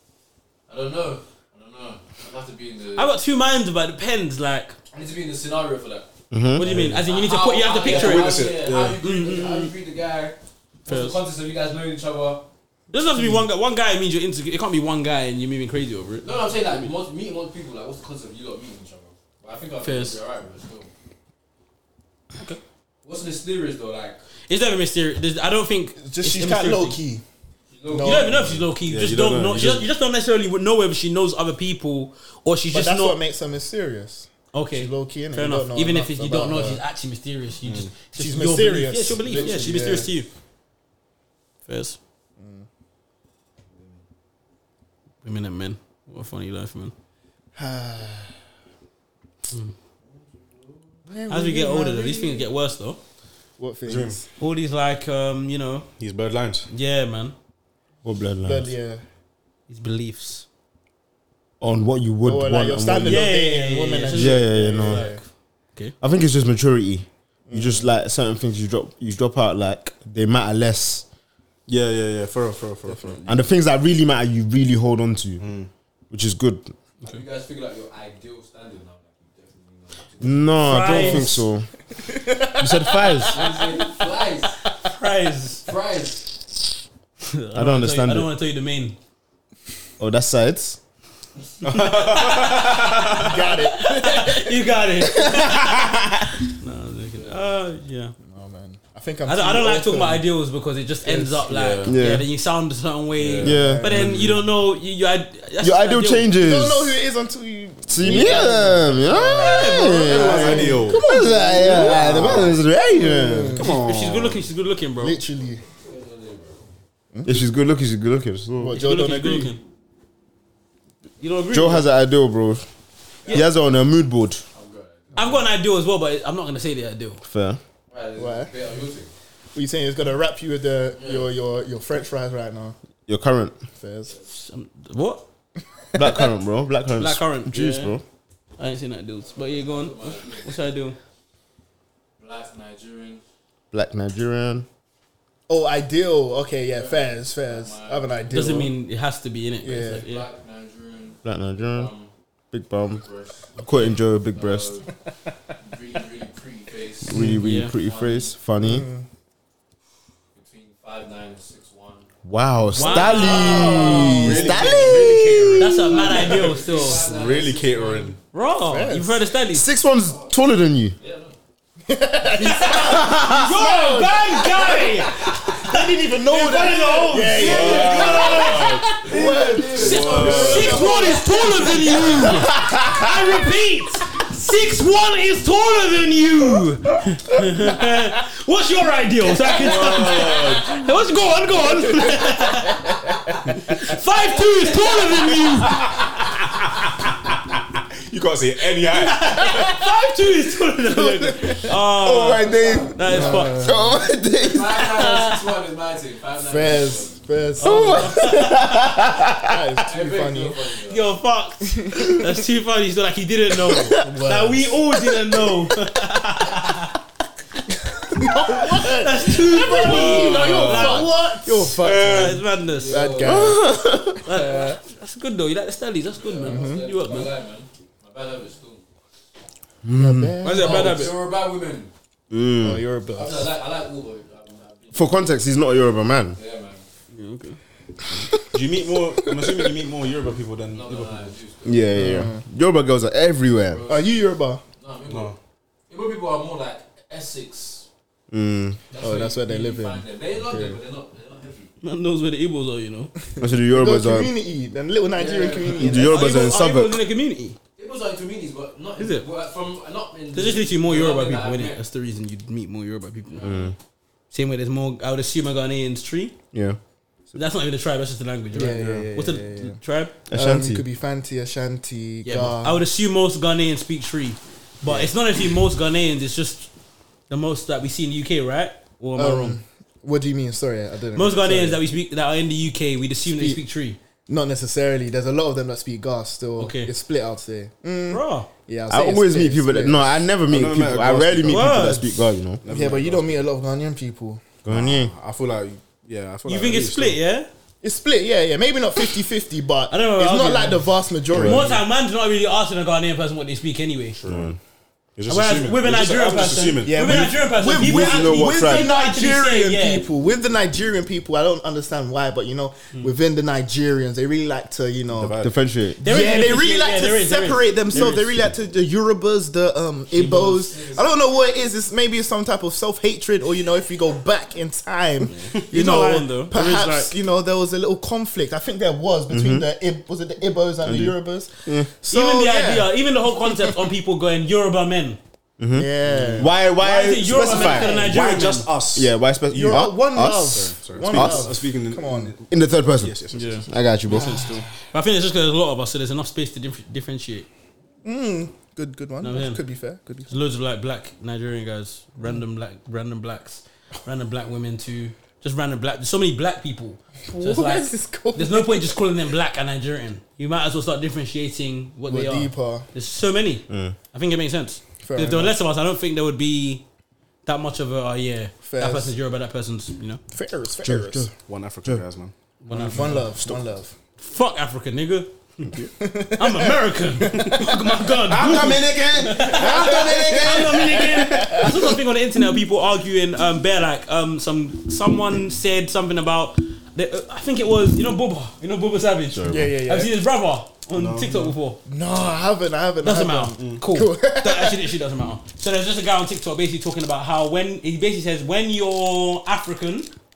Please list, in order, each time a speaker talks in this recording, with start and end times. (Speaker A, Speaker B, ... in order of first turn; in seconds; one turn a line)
Speaker A: 0.7-3.1
Speaker B: 3.0-4.8
Speaker A: 4.9-6.1
Speaker C: 6.3-6.7
Speaker B: 6.6-8.5
Speaker D: 6.6-7.0
Speaker A: 7.0-12.4
Speaker D: 7.8-9.0
Speaker B: 9.0-9.7
Speaker B: 10.9-11.2
Speaker B: 12.9-16.9
Speaker A: 16.2-20.9
Speaker B: 19.8-20.2
Speaker A: 23.0-24.2
Speaker B: 24.5-27.0
Speaker E: 26.0-27.2
Speaker A: 27.7-28.3
Speaker E: 27.9-28.6
Speaker B: 28.0-33.2
Speaker D: 28.8-29.9
Speaker E: 32.7-36.8
Speaker B: 34.5-40.3
Speaker D: 37.6-38.0
Speaker E: 38.1-40.1
Speaker B: 41.7-42.0
Speaker E: 42.4-42.7
Speaker B: 45.2-46.9
Speaker E: 47.5-48.3
Speaker A: 50.0-50.8
Speaker E: 51.1-52.5
Speaker B: 51.3-53.0
Speaker E: 53.6-54.2
Speaker D: 53.9-54.2
Speaker B: 54.4-55.9
Speaker D: 56.0-56.7
Speaker B: 56.7-57.3
Speaker C: 58.0-58.7
Speaker E: 58.4-59.0
Speaker B: 59.7-60.4
Speaker C: 61.6-63.3
Speaker E: 62.2-65.2
Speaker B: 63.0-65.2
Speaker C: 64.1-65.1
Speaker C: 66.0-71.0
Speaker E: 67.5-67.9
Speaker D: 71.7-73.4
Speaker E: 72.9-73.2
Speaker C: 73.2-75.4
Speaker D: 75.4-75.7
Speaker C: 76.1-76.7
Speaker A: 77.0-80.8
Speaker C: 80.2-81.7
Speaker B: 80.6-81.4
Speaker E: 80.9-81.3
Speaker E: 82.0-83.9
Speaker C: 82.6-83.5
Speaker A: 83.2-84.6
Speaker B: 84.8-85.6
Speaker A: 85.6-86.4
Speaker B: 87.2-89.0
Speaker C: 87.5-88.3
Speaker C: 90.0-90.8
Speaker D: 91.6-93.2
Speaker B: 91.7-95.9
Speaker E: 93.1-94.6
Speaker C: 95.2-96.3
Speaker B: 96.5-98.1
Speaker A: 97.1-97.4
Speaker E: 98.2-100.2
Speaker B: 99.2-106.2
Speaker E: 101.0-101.4
Speaker D: 101.5-102.0
Speaker C: 101.8-102.3
Speaker D: 103.2-104.4
Speaker C: 103.4-104.0
Speaker E: 103.5-104.0
Speaker C: 105.6-107.0
Speaker E: 106.3-113.7
Speaker C: 107.9-113.7
Speaker B: 109.2-110.7
Speaker D: 110.0-111.0
Speaker D: 111.7-112.5
Speaker B: 111.7-112.2
Speaker B: 113.6-115.2
Speaker D: 113.6-114.4
Speaker E: 115.0-115.6
Speaker A: 115.8-116.7
Speaker E: 117.1-117.5
Speaker C: 117.2-118.8
Speaker E: 118.6-119.5
Speaker B: 118.7-119.6
Speaker B: 121.2-121.9
Speaker C: 121.5-122.7
Speaker C: 123.3-124.4
Speaker A: 124.5-125.5
Speaker B: 125.2-127.2
Speaker C: 127.2-127.6
Speaker A: 127.9-129.1
Speaker E: 128.2-128.5
Speaker E: 129.5-132.8
Speaker A: 130.9-131.3
Speaker C: 133.1-133.6
Speaker E: 133.8-134.1
Speaker B: 134.3-135.2
Speaker C: 135.9-138.0
Speaker B: 137.0-137.9
Speaker B: 138.6-141.0
Speaker A: 139.3-140.6
Speaker A: 142.2-143.2
Speaker C: 143.7-144.7
Speaker E: 145.5-148.7
Speaker A: 146.7-148.6
Speaker B: 148.3-150.3
Speaker E: 149.6-150.0
Speaker A: 150.0-151.2
Speaker C: 151.2-151.9
Speaker A: 151.7-152.1
Speaker C: 152.5-153.0
Speaker A: 152.8-154.9
Speaker C: 153.6-154.8
Speaker A: 155.6-158.3
Speaker C: 157.0-158.9
Speaker B: 157.1-157.7
Speaker E: 158.6-159.1
Speaker A: 160.3-162.1
Speaker C: 162.2-165.8
Speaker B: 162.7-164.7
Speaker E: 162.9-166.3
Speaker A: 163.0-164.1
Speaker D: 163.7-168.2
Speaker B: 165.6-167.1
Speaker A: 165.8-168.2
Speaker B: 168.3-169.7
Speaker E: 168.7-169.2
Speaker C: 169.5-170.9
Speaker A: 169.9-170.4
Speaker A: 171.0-171.3
Speaker E: 171.9-182.5
Speaker B: 172.3-178.9
Speaker C: 172.7-173.5
Speaker D: 177.3-181.0
Speaker A: 177.4-182.0
Speaker B: 179.7-192.9
Speaker C: 182.5-183.0
Speaker D: 189.5-190.8
Speaker E: 191.8-192.2
Speaker B: 193.7-195.8
Speaker D: 198.1-199.5
Speaker B: 198.9-203.7
Speaker E: 200.9-201.7
Speaker C: 201.9-205.1
Speaker A: 202.4-203.1
Speaker E: 203.0-204.0
Speaker A: 204.4-207.2
Speaker B: 205.0-205.3
Speaker E: 206.4-208.5
Speaker B: 207.6-208.9
Speaker C: 207.6-209.8
Speaker E: 209.4-210.6
Speaker A: 209.9-211.1
Speaker B: 210.8-216.9
Speaker E: 211.8-212.2
Speaker E: 213.9-214.8
Speaker E: 218.1-224.8
Speaker B: 218.5-223.1
Speaker D: 219.8-221.0
Speaker D: 221.8-222.3
Speaker A: 222.6-223.5
Speaker C: 223.2-224.2
Speaker B: 224.2-227.3
Speaker A: 226.2-228.8
Speaker E: 226.4-226.8
Speaker C: 229.8-230.3
Speaker E: 229.9-231.1
Speaker B: 230.4-231.1
Speaker A: 230.6-231.9
Speaker C: 232.3-232.8
Speaker E: 232.6-233.5
Speaker A: 233.1-235.2
Speaker C: 234.9-236.4
Speaker A: 236.3-236.8
Speaker B: 237.1-237.6
Speaker D: 238.5-241.3
Speaker E: 239.2-239.7
Speaker A: 240.7-242.0
Speaker C: 241.6-243.8
Speaker E: 241.9-242.4
Speaker A: 243.7-244.2
Speaker E: 243.9-244.6
Speaker A: 244.8-245.3
Speaker D: 245.1-245.3
Speaker A: 245.9-247.8
Speaker C: 248.3-248.8
Speaker A: 248.9-251.7
Speaker E: 249.0-250.8
Speaker B: 251.8-253.1
Speaker C: 253.4-254.3
Speaker E: 253.4-256.2
Speaker A: 255.1-256.0
Speaker C: 255.7-257.0
Speaker B: 255.9-257.6
Speaker A: 257.8-261.8
Speaker B: 259.0-259.2
Speaker B: 260.3-263.5
Speaker A: 263.3-263.7
Speaker C: 263.4-263.7
Speaker B: 264.3-266.3
Speaker C: 266.5-266.8
Speaker B: 267.3-270.1
Speaker E: 268.5-269.8
Speaker C: 270.3-270.8
Speaker E: 270.3-272.8
Speaker B: 272.2-276.7
Speaker B: 277.3-279.6
Speaker E: 279.1-281.8
Speaker B: 281.1-284.0
Speaker E: 284.3-290.1
Speaker B: 286.6-286.9
Speaker B: 288.1-288.5
Speaker C: 288.9-292.6
Speaker D: 290.5-291.8
Speaker B: 291.5-292.2
Speaker D: 292.6-293.4
Speaker E: 292.7-294.5
Speaker C: 294.6-295.1
Speaker D: 294.7-297.2
Speaker B: 296.4-297.5
Speaker E: 297.8-301.8
Speaker B: 299.9-304.2
Speaker C: 301.3-301.7
Speaker D: 304.1-304.6
Speaker C: 304.2-304.6
Speaker D: 305.1-307.5
Speaker B: 305.3-310.1
Speaker E: 306.8-315.4
Speaker C: 307.8-308.9
Speaker D: 315.1-315.5
Speaker C: 315.4-316.0
Speaker E: 316.0-332.9
Speaker B: 316.0-318.3
Speaker B: 320.1-320.8
Speaker A: 320.7-321.1
Speaker B: 325.7-327.1
Speaker C: 329.3-329.7
Speaker C: 330.8-331.9
Speaker B: 332.1-335.2
Speaker E: 333.5-333.7
Speaker C: 335.6-338.0
Speaker E: 335.7-336.5
Speaker D: 336.0-336.5
Speaker B: 336.7-338.7
Speaker E: 337.5-338.1
Speaker D: 337.8-339.1
Speaker C: 338.9-341.5
Speaker E: 339.5-342.3
Speaker D: 340.2-343.6
Speaker C: 342.5-343.1
Speaker B: 343.3-343.6
Speaker C: 343.6-344.6
Speaker B: 344.9-347.5
Speaker E: 348.0-350.3
Speaker B: 349.2-349.6
Speaker B: 350.3-366.8
Speaker E: 357.3-359.0
Speaker E: 362.1-362.9
Speaker C: 363.7-363.9
Speaker E: 365.0-365.5
Speaker B: 367.4-370.2
Speaker E: 368.6-369.1
Speaker E: 370.3-371.3
Speaker C: 370.8-371.3
Speaker D: 371.4-372.3
Speaker B: 372.6-373.3
Speaker E: 372.7-373.9
Speaker B: 374.2-375.7
Speaker E: 376.0-377.7
Speaker B: 376.3-391.8
Speaker D: 378.2-381.7
Speaker E: 379.4-381.7
Speaker D: 389.3-389.7
Speaker E: 389.5-390.1
Speaker D: 390.9-391.6
Speaker E: 391.9-394.9
Speaker B: 393.0-400.1
Speaker D: 393.6-393.8